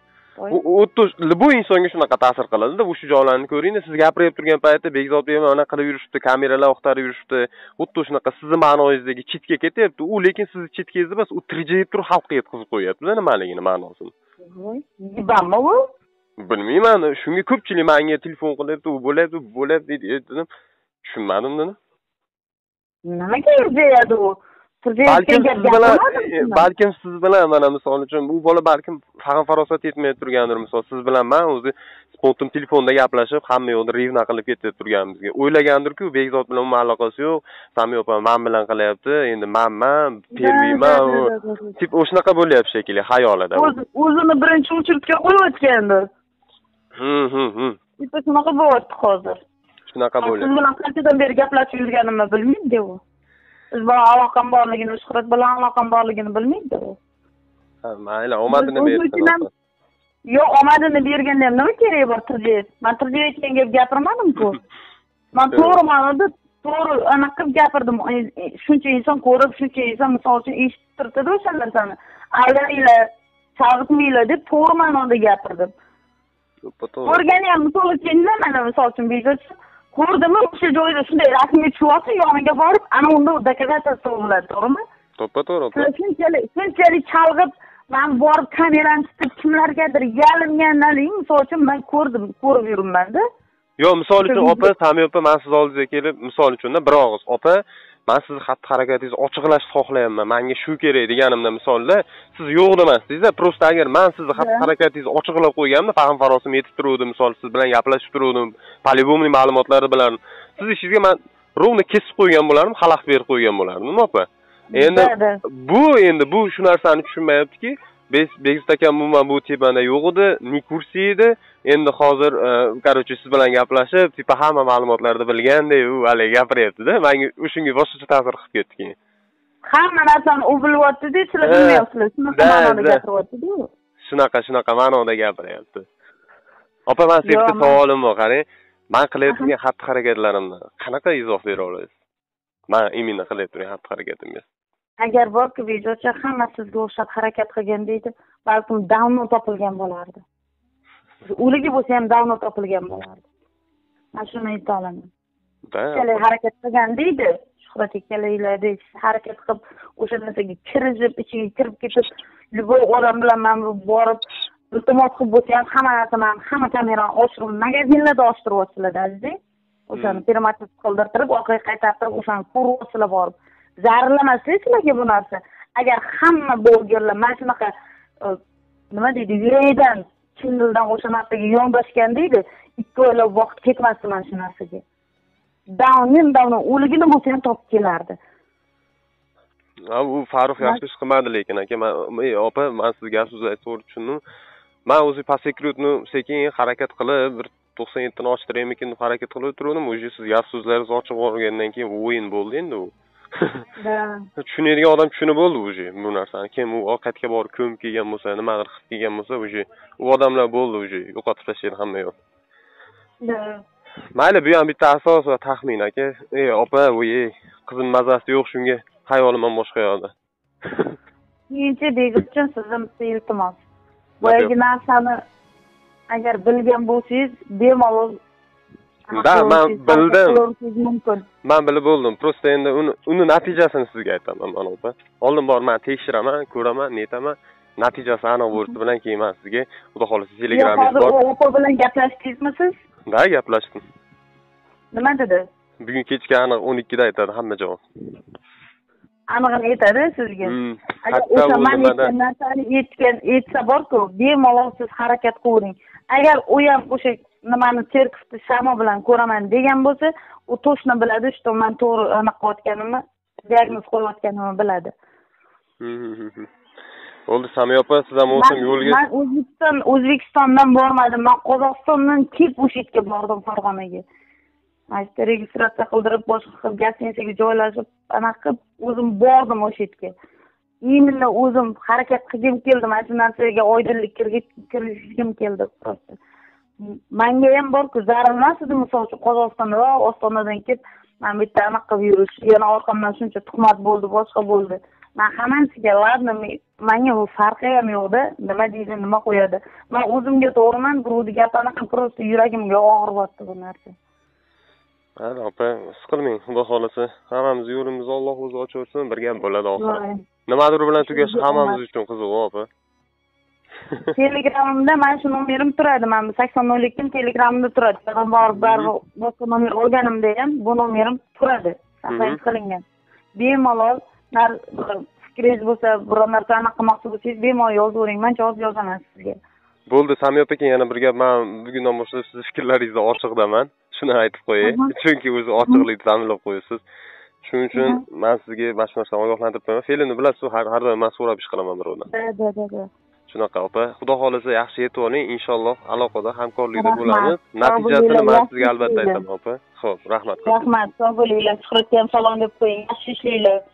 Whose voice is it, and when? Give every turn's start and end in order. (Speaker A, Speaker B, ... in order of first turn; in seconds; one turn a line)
Speaker A: 0.5-14.1
Speaker B: 14.4-15.8
Speaker A: 16.4-20.5
Speaker A: 21.0-21.8
Speaker B: 23.1-26.7
Speaker A: 25.1-43.8
Speaker B: 40.3-41.8
Speaker B: 43.5-46.0
Speaker A: 47.0-47.8
Speaker B: 48.0-49.4
Speaker A: 49.9-50.5
Speaker B: 50.2-53.0
Speaker B: 53.7-57.0
Speaker A: 57.8-59.5
Speaker B: 58.5-59.5
Speaker B: 60.3-64.6
Speaker B: 65.3-73.0
Speaker B: 73.6-75.7
Speaker A: 76.6-77.2
Speaker B: 77.0-84.8
Speaker A: 85.2-85.9
Speaker B: 85.7-93.2
Speaker A: 93.8-128.9
Speaker B: 94.2-94.7
Speaker B: 104.4-104.7
Speaker B: 114.7-115.4
Speaker B: 129.7-133.7
Speaker A: 131.4-133.0
Speaker A: 134.0-135.9
Speaker A: 136.9-141.9
Speaker B: 137.2-137.8
Speaker A: 142.7-144.5
Speaker B: 145.0-150.2
Speaker B: 151.3-153.2
Speaker B: 154.2-155.1
Speaker A: 155.7-156.2
Speaker B: 155.9-169.3
Speaker B: 169.9-177.7
Speaker A: 169.9-170.2
Speaker B: 178.9-184.8
Speaker B: 185.7-188.2
Speaker A: 189.9-194.2
Speaker A: 194.9-203.6
Speaker B: 203.8-204.2
Speaker A: 204.4-212.1
Speaker B: 213.2-213.6
Speaker A: 214.2-220.1
Speaker A: 220.7-220.9
Speaker B: 221.5-223.6
Speaker B: 224.2-225.2
Speaker A: 224.2-224.5
Speaker B: 226.1-228.2
Speaker B: 229.1-231.3
Speaker A: 229.1-230.4
Speaker A: 231.4-241.1
Speaker B: 240.5-242.8
Speaker A: 243.1-243.8
Speaker B: 244.9-245.5
Speaker A: 245.8-247.8
Speaker B: 249.3-264.9
Speaker A: 250.4-252.1
Speaker A: 265.8-266.5
Speaker A: 267.3-269.0
Speaker B: 268.3-274.0
Speaker B: 274.9-280.1
Speaker B: 280.8-286.2
Speaker B: 286.8-303.9
Speaker A: 305.2-312.7
Speaker B: 309.8-310.2
Speaker B: 311.0-311.8
Speaker B: 314.1-322.8
Speaker A: 318.5-318.9
Speaker A: 322.1-322.4
Speaker B: 323.4-329.4
Speaker A: 329.9-336.8
Speaker B: 334.6-334.9
Speaker A: 337.4-342.1
Speaker B: 337.8-338.0
Speaker B: 342.1-342.9
Speaker A: 343.3-350.5
Speaker B: 346.8-349.2
Speaker B: 350.4-353.6